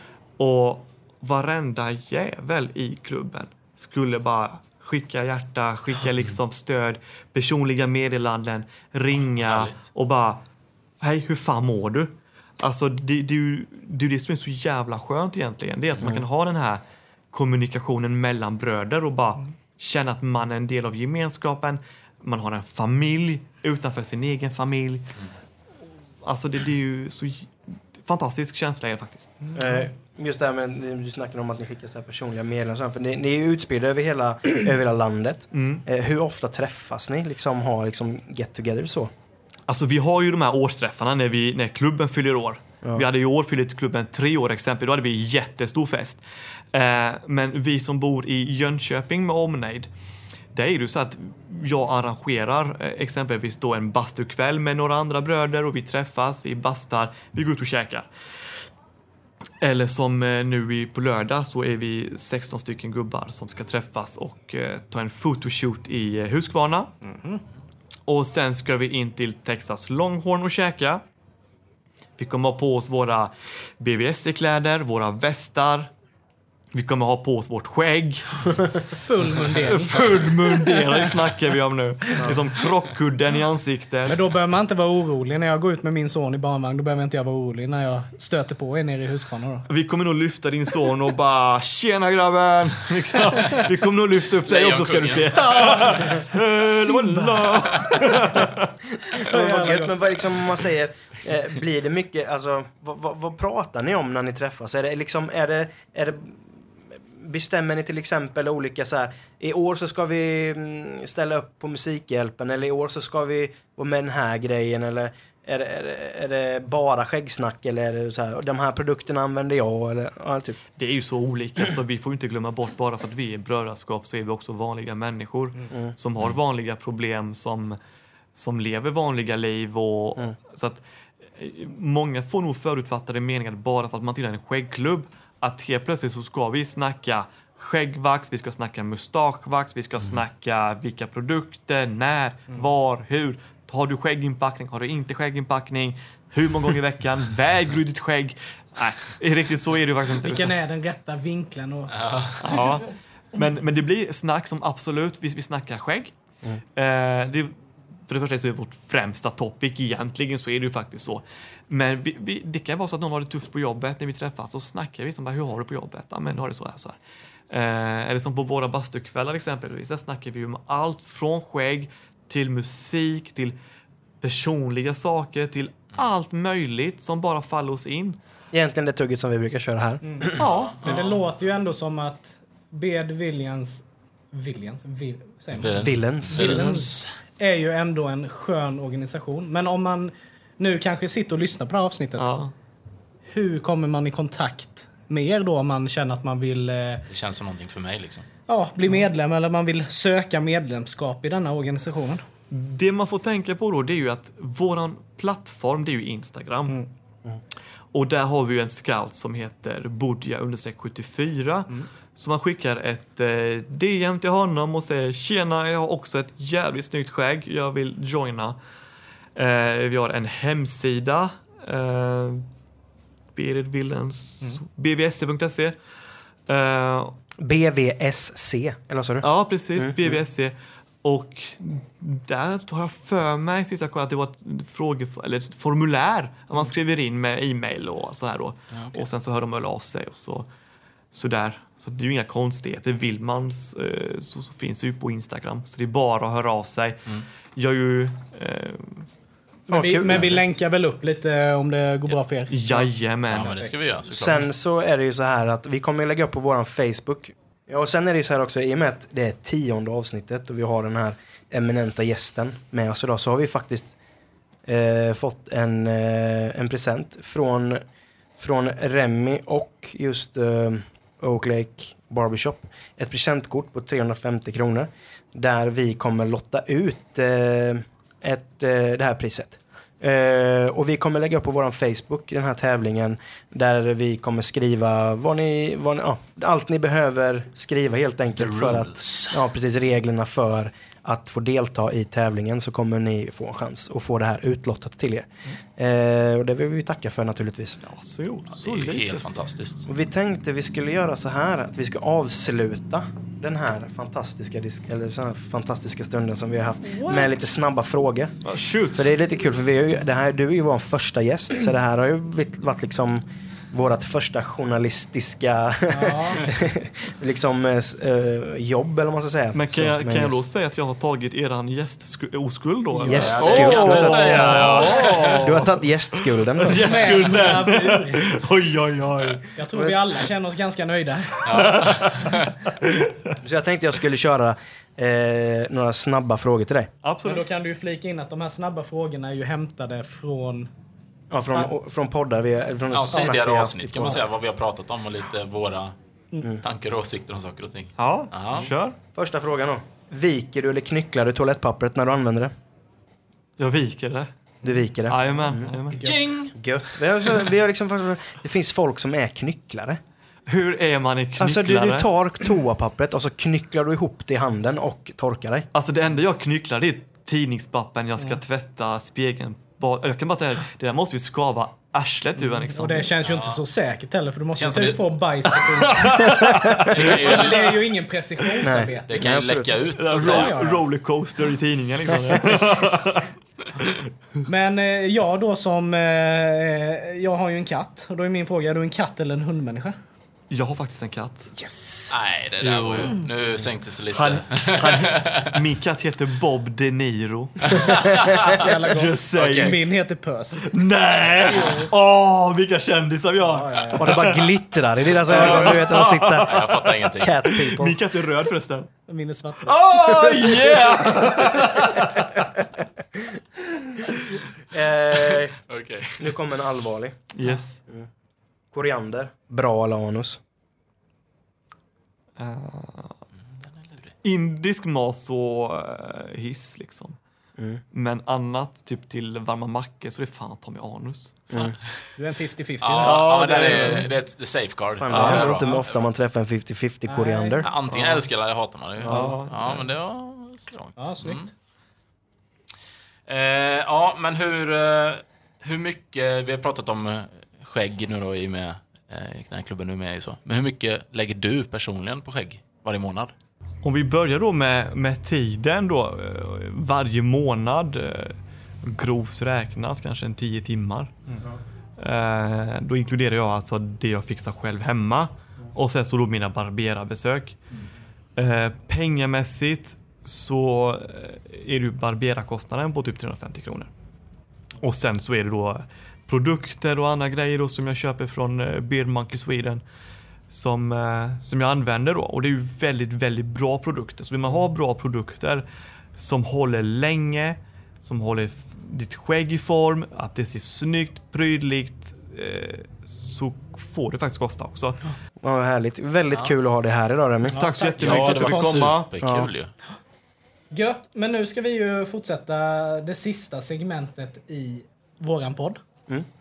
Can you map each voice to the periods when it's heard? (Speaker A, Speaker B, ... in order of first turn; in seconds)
Speaker A: 0.4-10.4, 11.0-25.1, 26.2-29.5, 35.5-35.8, 39.7-46.2, 46.7-49.9, 50.5-58.1, 59.6-66.9, 68.1-71.0, 72.2-75.9, 76.7-78.7, 79.4-84.2, 89.7-98.7, 120.8-127.8, 128.3-130.8, 131.3-150.5, 152.4-156.1, 156.8-157.5, 158.1-167.0, 167.5-173.6, 174.2-178.2, 180.4-181.0, 192.2-192.5, 202.5-206.8, 207.9-218.6, 219.3-222.4, 223.3-225.8, 226.5-227.2, 229.2-240.5, 241.1-249.1, 252.5-253.6, 297.8-299.4, 308.4-309.1, 319.5-329.5, 331.5-333.4, 337.0-337.5, 348.0-349.0, 353.6-354.3, 355.1-356.1, 360.5-362.1, 365.7-373.1, 375.8-377.7, 379.9-384.0, 390.5-391.5, 392.6-393.2, 394.1-399.9, 400.6-404.6, 405.1-408.9, 409.6-412.3, 417.3-417.8, 422.4-423.2, 424.2-427.2, 427.9-431.6, 433.0-434.1, 435.1-435.5, 437.9-438.3, 439.0-439.8, 453.8-461.2, 462.0-467.6, 468.4-473.9, 474.8-479.8, 480.5-485.6, 486.2-495.0, 497.6-499.1
Speaker B: 9.4-9.8, 94.5-95.6, 151.9-152.7, 180.4-180.8, 185.6-187.1, 197.1-198.3, 253.3-254.5, 288.4-289.4, 298.6-299.9, 323.1-325.5, 331.5-332.5, 342.9-345.9, 346.6-348.7, 356.0-356.5, 373.2-373.6, 374.6-375.1, 376.8-377.8, 379.1-380.6, 392.1-395.6, 397.7-398.7, 399.4-399.8, 405.4-405.8, 406.4-407.4, 415.1-416.4, 423.6-424.1, 432.8-436.1, 437.6-441.5, 443.3-453.3, 498.0-499.7
Speaker C: 29.5-39.1, 99.1-106.4, 107.1-120.6, 178.5-181.0, 185.8-186.8, 227.4-229.3, 229.8-230.2, 249.7-250.4, 254.1-264.0, 264.7-267.8, 268.4-297.8, 299.9-308.4, 308.9-320.4, 323.0-327.1, 333.4-336.9, 341.3-344.3, 349.1-352.5, 354.6-355.7, 356.6-360.0, 361.4-365.7, 376.3-376.9, 378.6-379.8, 404.0-408.0, 411.3-412.1, 414.7-415.6, 416.2-417.2, 418.7-420.4, 431.5-431.8, 435.0-437.7, 439.0-439.4, 495.4-497.6, 499.2-499.5
Speaker D: 67.0-67.4, 78.9-80.0, 80.6-81.1, 84.1-89.7, 93.4-93.6, 95.3-98.4, 99.1-100.1, 150.2-152.7, 180.0-192.3, 193.3-197.1, 198.5-202.2, 249.7-252.9, 306.9-307.4, 315.9-316.5, 323.0-324.1, 326.7-328.3, 329.6-331.8, 337.2-340.7, 355.9-356.3, 372.7-379.2, 380.1-380.8, 384.5-390.0, 391.5-392.2, 398.5-400.7, 401.4-401.9, 403.4-404.2, 409.1-410.5, 432.2-434.0, 437.1-437.6, 441.0-441.5, 497.5-498.9, 500.7-505.8